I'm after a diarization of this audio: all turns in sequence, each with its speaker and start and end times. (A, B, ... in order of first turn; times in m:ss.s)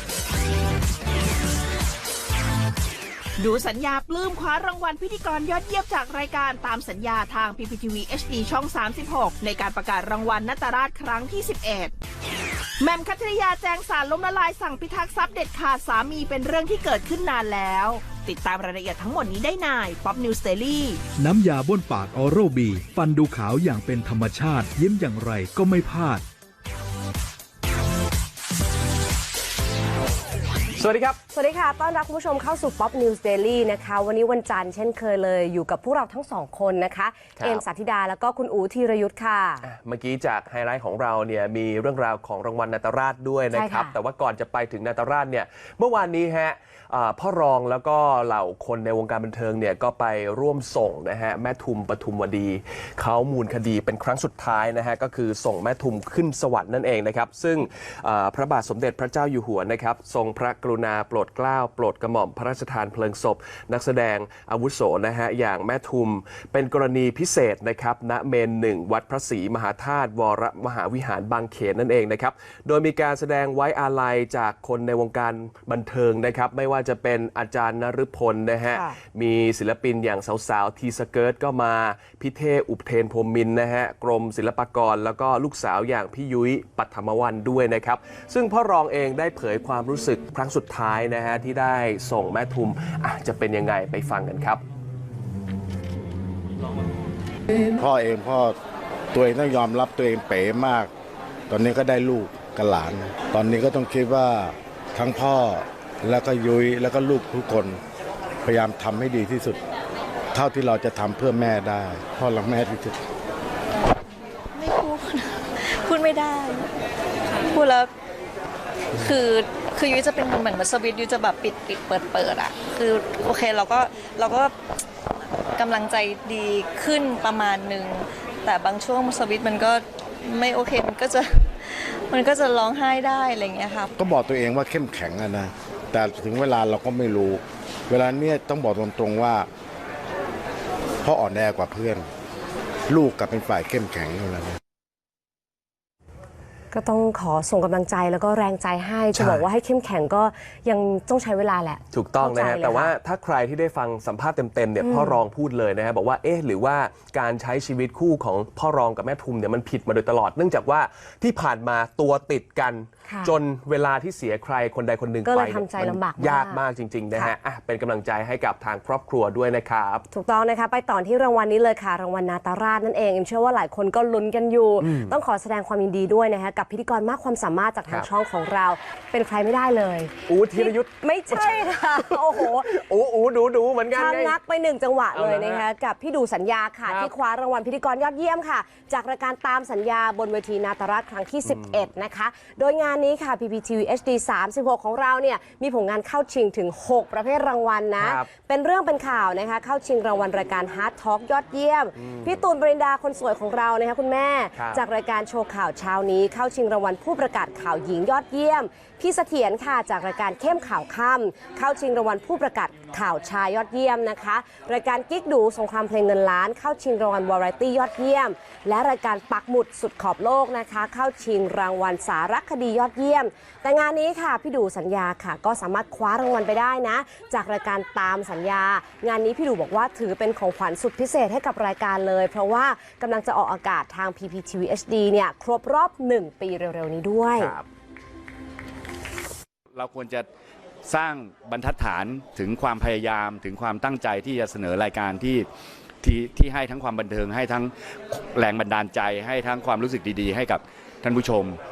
0:03.4-0:11.9 A
0:12.8-0:21.0 A
0:21.2-0:26.2 B
0:30.8-0:31.2 C
0:31.3-0:39.6 D
0:37.4-0:37.6 C
0:39.6-1:34.6 C
0:43.5-0:43.9 D
1:18.7-1:19.0 D
1:37.7-1:38.6 E
1:39.1-1:40.9 E
1:41.5-1:47.8 E
1:48.4-1:49.6 E
1:50.3-1:53.0 E
1:54.5-1:56.7 F
1:57.4-1:57.9 F
1:59.0-2:04.6 F
2:05.5-2:13.9 F
2:14.0-2:19.5 E
2:21.0-2:22.1 E
2:22.9-2:24.6 E
2:26.7-2:32.9 D
2:29.1-2:29.4 C
2:31.9-2:50.0 C
2:34.8-2:35.2 D
2:43.0-2:43.3 D
2:45.2-2:47.4 D
2:50.1-3:02.7 D
2:54.8-2:55.2 C
3:00.3-3:04.4 C
3:03.9-3:57.5 D
3:05.1-3:05.6 C
3:06.8-3:07.1 C
3:18.0-3:18.3 C
3:22.0-3:22.3 C
3:24.5-3:24.8 C
3:57.3-3:57.6 C
3:59.7-4:00.2 G
4:00.8-4:05.4 G
4:06.0-4:11.6 G